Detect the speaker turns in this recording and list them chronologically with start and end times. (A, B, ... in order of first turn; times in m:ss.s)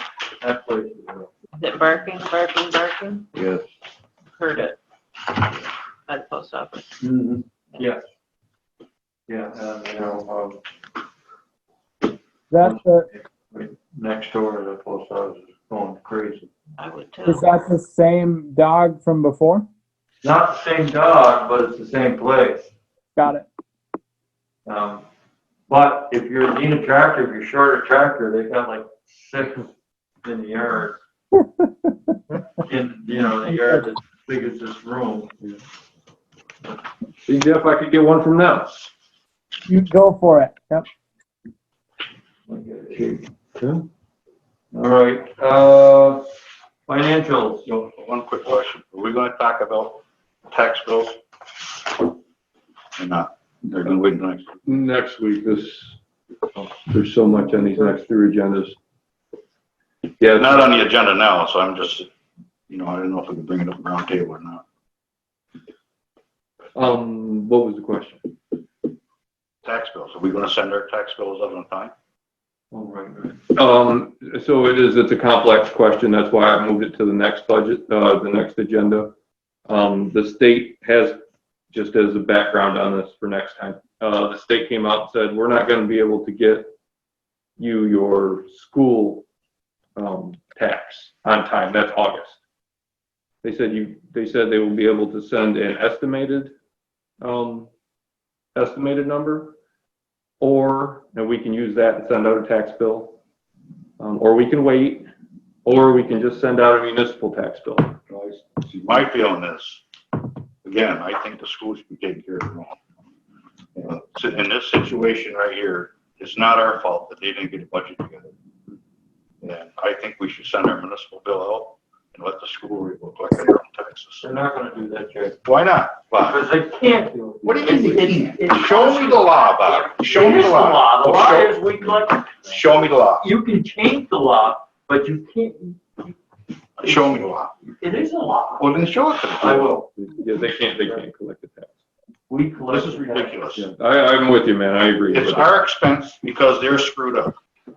0:00.4-0:01.3 A
0:01.6-0:03.2 B
0:03.3-0:03.6 C
0:04.4-0:04.8 B
0:06.1-0:06.9 B
0:07.0-0:08.0 A
0:09.3-0:10.6 A
0:12.5-0:13.1 D
0:12.6-0:16.5 A
0:16.8-0:17.4 B
0:17.2-0:19.7 D
0:20.2-0:22.7 A
0:23.2-0:23.5 D
0:24.7-0:25.0 A
0:25.7-0:31.0 A
0:31.4-0:32.2 D
0:32.6-0:35.3 A
0:37.3-0:38.8 C
0:39.7-0:40.9 D
0:42.5-0:43.3 A
0:43.6-0:43.8 C
0:44.7-0:46.2 A
0:46.9-0:47.7 A
0:47.7-0:51.2 E
0:53.0-0:54.5 E
0:54.6-0:56.0 C
0:56.6-0:58.8 C
1:00.2-1:00.5 C
1:00.4-1:02.1 E
1:02.7-1:04.6 E
1:06.8-1:08.3 C
1:09.6-1:11.9 E
1:12.7-1:13.4 A
1:13.6-1:19.1 C
1:19.7-1:21.2 C
1:21.7-1:26.7 C
1:27.6-1:29.2 C
1:30.0-1:32.4 C
1:33.4-1:36.5 C
1:37.2-1:37.7 C
1:38.6-1:39.6 C
1:40.4-1:43.2 C
1:44.0-1:45.1 C
1:45.6-1:48.6 C
1:48.7-1:49.8 E
1:50.6-1:52.8 E
1:53.8-1:58.3 E
1:59.4-2:04.3 E
2:04.2-2:05.4 A
2:05.4-2:06.4 E
2:06.2-2:16.1 A
2:07.4-2:11.6 E
2:12.5-2:13.2 E
2:16.8-2:17.5 E
2:16.8-2:18.7 A
2:18.6-2:19.7 E
2:19.4-2:19.9 A
2:20.0-2:21.8 C
2:22.3-2:23.4 A
2:22.7-2:23.7 E
2:23.6-2:25.5 C
2:25.1-2:27.4 E